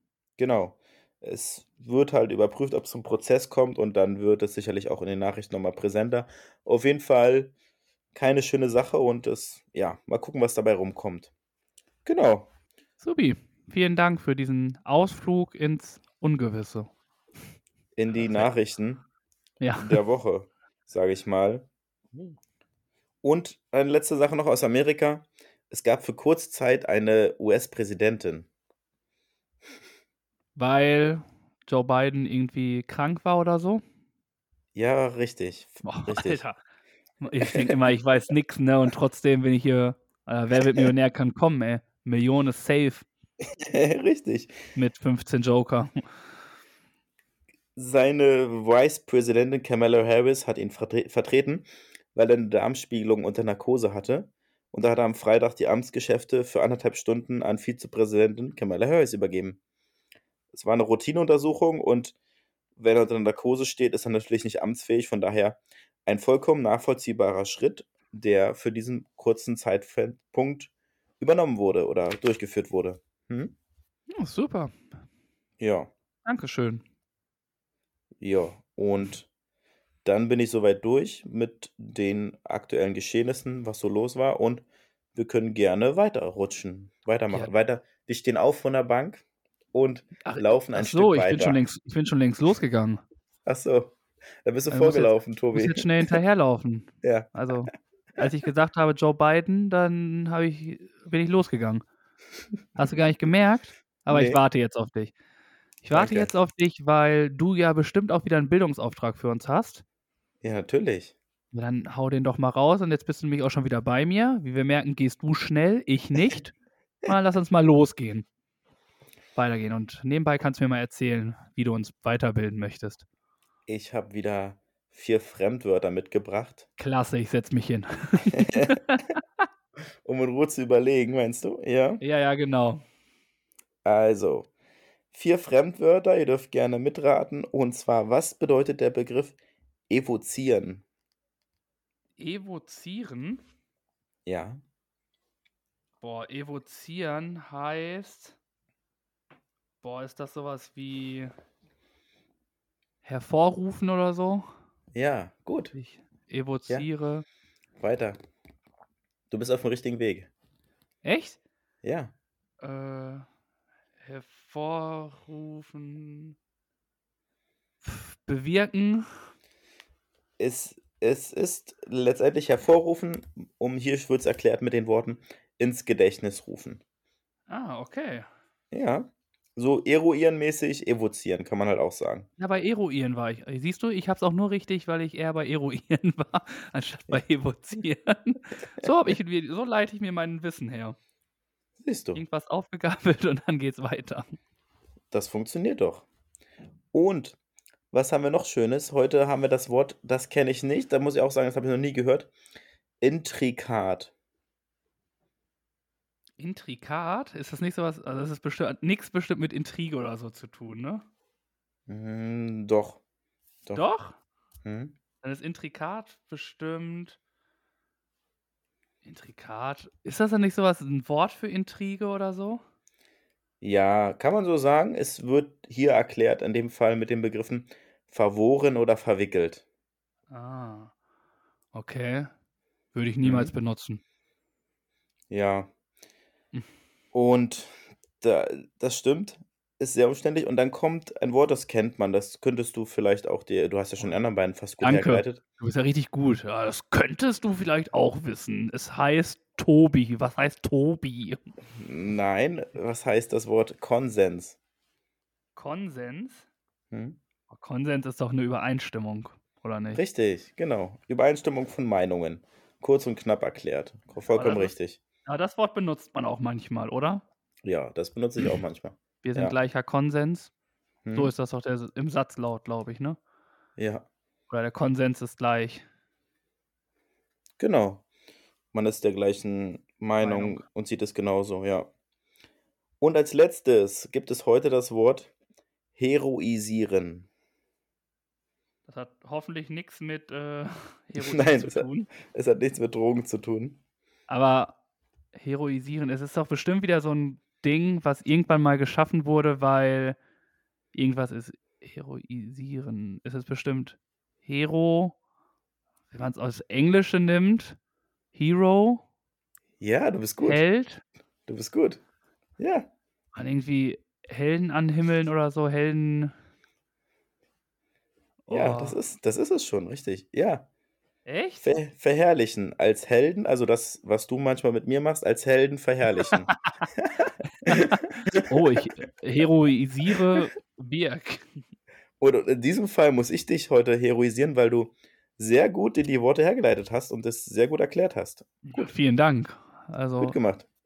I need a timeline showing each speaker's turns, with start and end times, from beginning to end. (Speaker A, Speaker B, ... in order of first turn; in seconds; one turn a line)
Speaker A: 0.4-7.5
Speaker A: 8.1-11.3
Speaker A: 12.1-12.5
Speaker B: 13.0-16.9
Speaker A: 18.0-19.0
Speaker B: 18.1-18.5
Speaker B: 19.6-20.0
Speaker A: 19.8-21.7
Speaker A: 23.2-28.5
Speaker B: 30.6-33.8
Speaker A: 34.8-36.4
Speaker B: 35.9-36.6
Speaker B: 37.2-43.0
Speaker A: 37.4-37.7
Speaker A: 43.4-44.6
Speaker B: 44.8-46.0
Speaker A: 47.8-59.6
Speaker A: 60.5-62.1
Speaker A: 62.8-73.5
Speaker B: 74.1-74.7
Speaker A: 75.6-75.9
Speaker B: 76.2-76.8
Speaker A: 78.2-79.3
Speaker A: 80.0-84.6
Speaker A: 85.1-91.6
Speaker B: 90.2-93.0
Speaker A: 93.5-96.1
Speaker B: 94.7-101.8
Speaker A: 97.0-97.4
Speaker B: 102.8-105.1
Speaker A: 104.1-104.4
Speaker B: 105.8-109.8
Speaker A: 105.9-106.3
Speaker A: 110.4-111.1
Speaker B: 111.5-118.3
Speaker B: 119.3-123.0
Speaker A: 123.7-126.7
Speaker B: 126.8-129.2
Speaker A: 128.4-128.8
Speaker A: 130.0-132.0
Speaker B: 132.0-132.8
Speaker A: 133.8-134.5
Speaker A: 135.1-139.4
Speaker A: 139.9-140.8
Speaker B: 142.2-143.4
Speaker A: 144.3-144.6
Speaker B: 146.0-148.4
Speaker B: 149.8-151.3
Speaker B: 153.0-154.5
Speaker A: 154.9-155.7
Speaker B: 155.7-157.2
Speaker A: 157.8-158.2
Speaker A: 159.3-160.3
Speaker B: 161.0-161.4
Speaker A: 161.8-162.1
Speaker B: 162.6-163.3
Speaker B: 164.0-166.3
Speaker B: 167.8-169.1
Speaker A: 170.4-176.8
Speaker B: 177.5-178.3
Speaker A: 178.7-182.3
Speaker B: 182.4-191.0
Speaker A: 191.8-192.2
Speaker B: 192.1-194.4
Speaker A: 195.1-196.1
Speaker A: 196.9-197.4
Speaker A: 197.9-202.3
Speaker A: 203.0-204.1
Speaker B: 206.4-211.0
Speaker A: 211.9-213.0
Speaker B: 213.8-214.2
Speaker A: 214.6-214.9
Speaker B: 215.2-217.2
Speaker B: 219.0-222.6
Speaker A: 223.6-229.6
Speaker B: 230.3-230.9
Speaker B: 231.7-232.3
Speaker B: 232.9-234.0
Speaker A: 233.2-233.5
Speaker A: 235.3-235.7
Speaker A: 237.1-245.4
Speaker B: 244.8-251.4
Speaker A: 251.8-254.6
Speaker B: 255.6-256.5
Speaker A: 256.9-257.2
Speaker B: 257.5-260.0
Speaker A: 259.9-265.0
Speaker B: 264.3-264.7
Speaker B: 265.3-267.2
Speaker A: 267.6-269.5
Speaker B: 269.2-270.5
Speaker A: 271.0-271.3
Speaker B: 271.1-273.2
Speaker A: 273.8-274.1
Speaker B: 274.5-275.9
Speaker A: 277.6-278.0
Speaker A: 278.7-281.9
Speaker B: 280.2-280.6
Speaker A: 283.0-285.3
Speaker A: 286.0-287.3
Speaker B: 288.9-292.1
Speaker A: 291.2-293.8
Speaker B: 294.3-294.8
Speaker B: 295.4-300.2
Speaker B: 300.9-305.1
Speaker B: 306.1-307.8
Speaker B: 308.3-309.0
Speaker A: 309.8-310.6
Speaker B: 310.4-311.0
Speaker A: 311.5-312.0
Speaker A: 312.6-312.9
Speaker B: 313.4-316.3
Speaker B: 318.5-319.0
Speaker A: 318.5-320.6
Speaker B: 321.3-321.8
Speaker A: 321.6-327.1
Speaker B: 326.5-326.9
Speaker B: 327.6-331.5
Speaker A: 327.7-328.5
Speaker A: 332.2-338.9
Speaker B: 338.6-340.4
Speaker A: 340.2-340.7